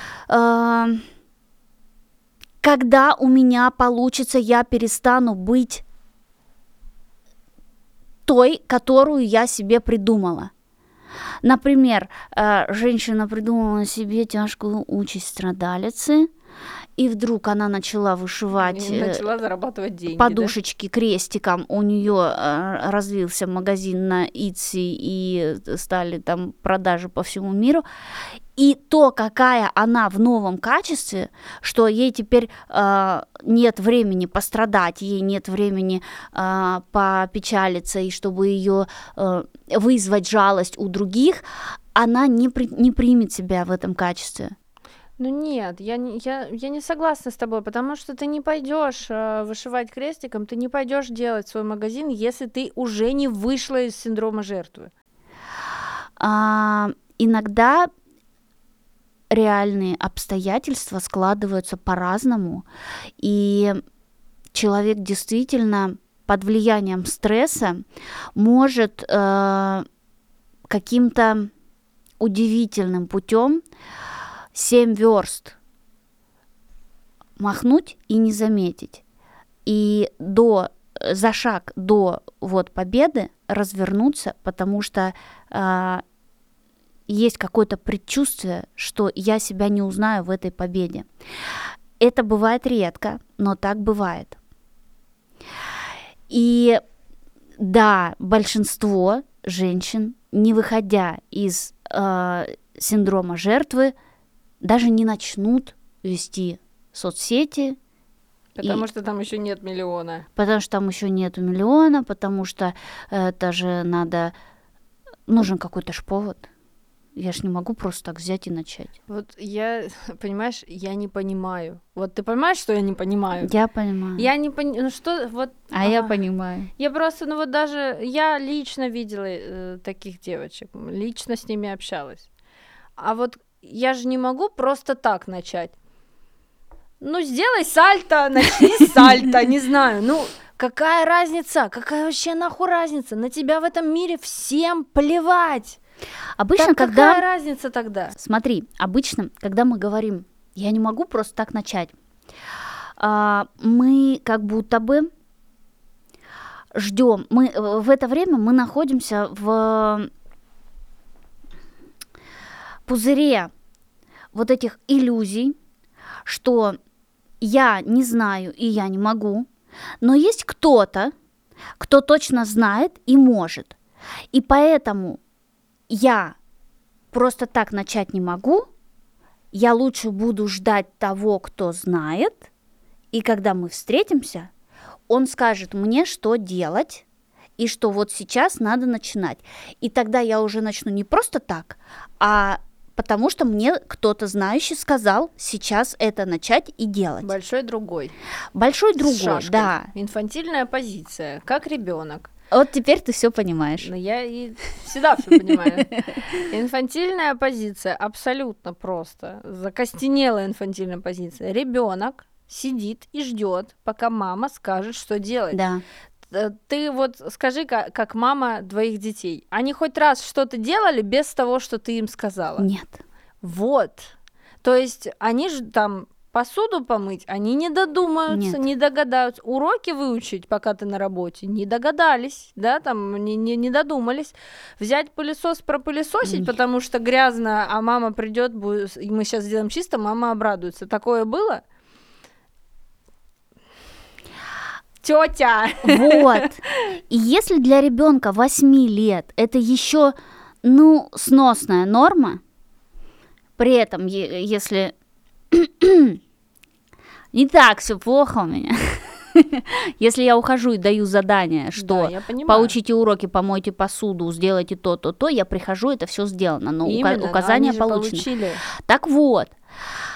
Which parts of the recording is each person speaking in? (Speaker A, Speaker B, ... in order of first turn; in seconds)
Speaker A: 0.3-1.0, 2.6-5.8, 8.3-10.5, 11.4-16.3, 17.0-19.3, 20.1-27.9, 28.6-41.4, 42.0-44.5, 56.2-57.9, 59.3-62.7, 63.2-63.8, 64.5-67.8, 68.3-69.9, 70.7-71.5, 72.2-73.6, 74.5-75.6, 77.4-79.0, 79.7-86.0, 87.1-91.1, 92.0-94.4, 96.3-96.8, 97.6-103.9, 104.6-107.8, 108.6-108.8, 110.4-114.3, 115.3-116.5, 117.2-118.9, 123.4-124.3, 125.7-126.7, 146.4-147.2, 148.2-151.9, 153.0-155.1, 156.7-160.1, 162.9-163.5, 164.3-165.6, 166.3-166.8, 167.4-169.5, 170.0-171.1, 171.8-173.8, 174.3-175.2, 175.9-176.4, 177.1-178.7, 179.5-182.5, 183.1-184.5, 185.1-187.0, 187.6-197.3, 198.6-199.9, 202.5-203.9, 215.5-215.8, 222.6-223.0, 228.3-228.7, 236.2-236.5, 245.8-246.6, 247.1-252.4, 253.6-254.9, 255.5-256.2, 257.3-268.3, 268.8-269.6
Speaker B: 18.5-20.5, 45.2-54.9, 108.6-110.3, 119.1-123.5, 124.2-126.2, 126.8-132.3, 133.0-135.7, 137.0-145.8, 146.6-148.2, 197.2-198.2, 199.0-202.3, 203.8-205.9, 206.5-215.6, 216.3-222.7, 223.4-241.6, 245.0-246.5, 261.8-262.7, 266.8-268.6